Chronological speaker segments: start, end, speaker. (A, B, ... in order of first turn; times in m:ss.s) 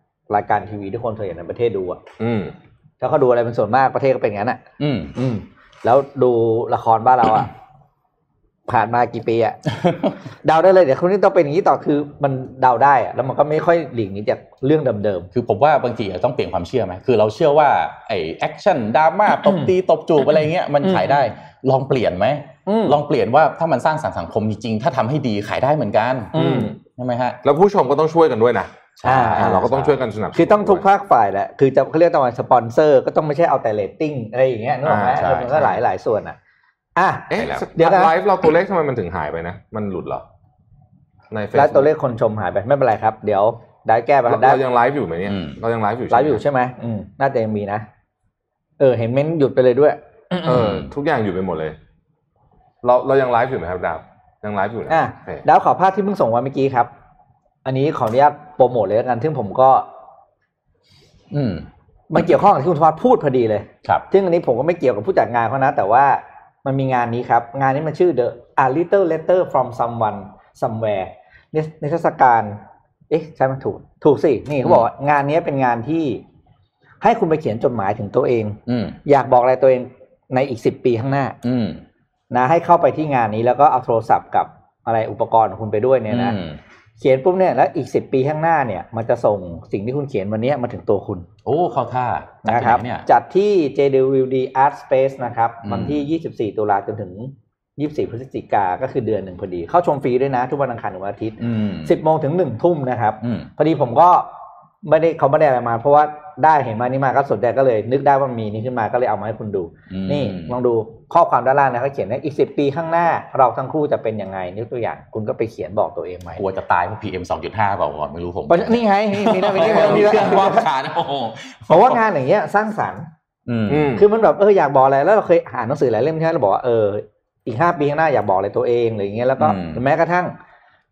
0:00.3-0:02.0 A
0:02.2-0:02.5 B
0:03.0-0:04.6 A
0:04.8-0:05.1 C
0:05.1-0:07.5 A
0:08.7-0:09.6 A
0:09.7-0:10.1 C
0:10.4-0:15.3 A
0:15.3-0:27.4 C
0:19.4-0:19.7 A
0:20.8-0:21.2 A
0:22.6-0:23.0 A
0:26.3-0:26.7 A
0:26.3-0:26.8 B
0:27.4-0:30.8 B
0:29.0-0:30.0 C
0:29.0-0:29.7 A
0:30.3-0:36.4 A
0:34.8-0:35.2 B
0:35.1-0:35.8 C
0:37.0-0:38.1 A
0:37.3-0:40.2 B
0:37.4-0:37.6 C
0:41.3-0:41.9 B
0:41.5-0:44.6 A
0:44.3-0:46.4 B
0:45.3-0:45.6 C
0:46.1-0:47.8 A
0:48.8-0:50.8 A
0:50.4-0:51.8 B
0:50.5-0:50.9 C
0:52.8-0:55.4 B
0:54.9-0:56.9 A
0:57.6-0:59.9 A
1:01.3-1:01.7 C
1:02.1-1:16.2 A
1:17.0-1:21.4 A
1:18.7-1:19.0 C
1:21.4-1:21.8 C
1:22.3-1:26.4 A
1:26.1-1:26.6 C
1:27.0-1:31.3 A
1:31.4-1:33.0 C
1:32.4-1:56.4 A
1:35.6-1:36.0 C
1:41.4-1:41.9 C
1:43.2-1:43.5 C
1:49.9-1:50.5 C
1:56.4-2:02.0 C
1:58.5-2:00.7 A
1:59.6-2:00.4 B
2:01.7-2:03.1 A
2:03.4-2:04.0 C
2:03.7-2:04.0 B
2:03.9-2:10.3 A
2:09.4-2:09.8 C